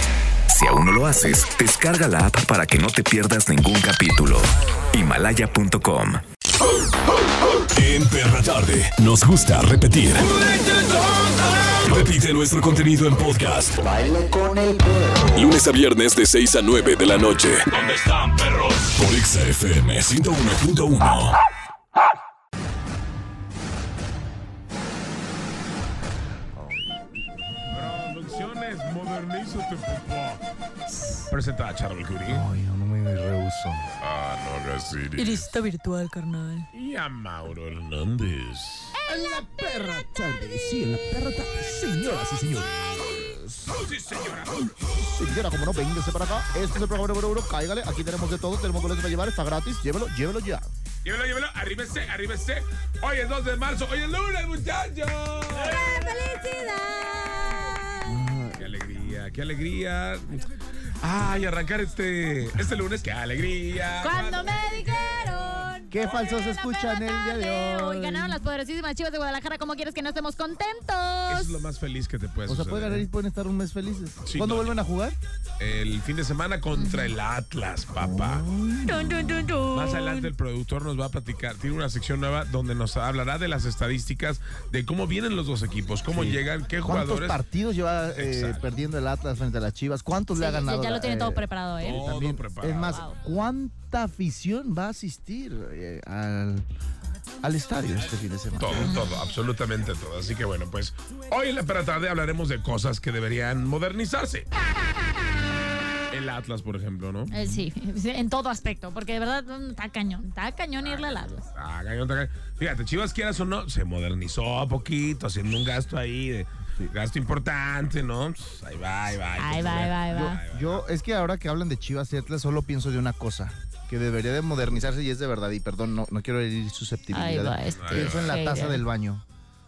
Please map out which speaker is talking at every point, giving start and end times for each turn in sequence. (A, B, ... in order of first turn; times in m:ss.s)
0:00.5-0:06.2 A
0:07.7-0:10.7 B
0:10.4-0:11.7 C
0:11.8-0:13.8 B
0:13.9-0:15.4 A
0:15.3-0:21.4 B
0:26.5-0:27.4 D
0:27.7-0:30.4 C
0:31.0-0:31.3 E
0:31.3-0:32.4 C
0:32.3-0:33.9 D
0:34.0-0:35.5 C
0:35.2-0:36.7 E
0:36.7-0:38.9 C
0:39.0-0:43.8 D
0:43.7-0:44.9 C
0:44.8-0:50.7 D
0:51.0-0:55.9 C
0:55.6-0:58.2 E
0:58.1-0:58.7 D
0:58.6-1:04.8 C
1:04.0-1:11.6 E
1:05.9-1:08.4 D
1:11.3-1:13.1 C
1:12.5-1:15.2 D
1:14.2-1:14.8 C
1:15.6-1:18.5 C
1:16.8-1:17.1 E
1:18.0-1:19.5 D
1:18.9-1:20.3 E
1:19.7-1:27.4 C
1:26.1-1:36.6 D
1:28.2-1:28.6 C
1:30.4-1:32.0 E
1:31.8-1:33.0 C
1:32.8-1:33.2 E
1:37.4-1:39.0 D
1:38.6-1:44.5 C
1:38.8-1:39.1 E
1:46.1-1:47.3 C
1:47.3-1:51.4 E
1:50.8-2:00.9 C
1:59.4-2:00.4 E
2:00.1-2:09.2 D
2:07.1-2:08.8 E
2:07.8-2:08.3 C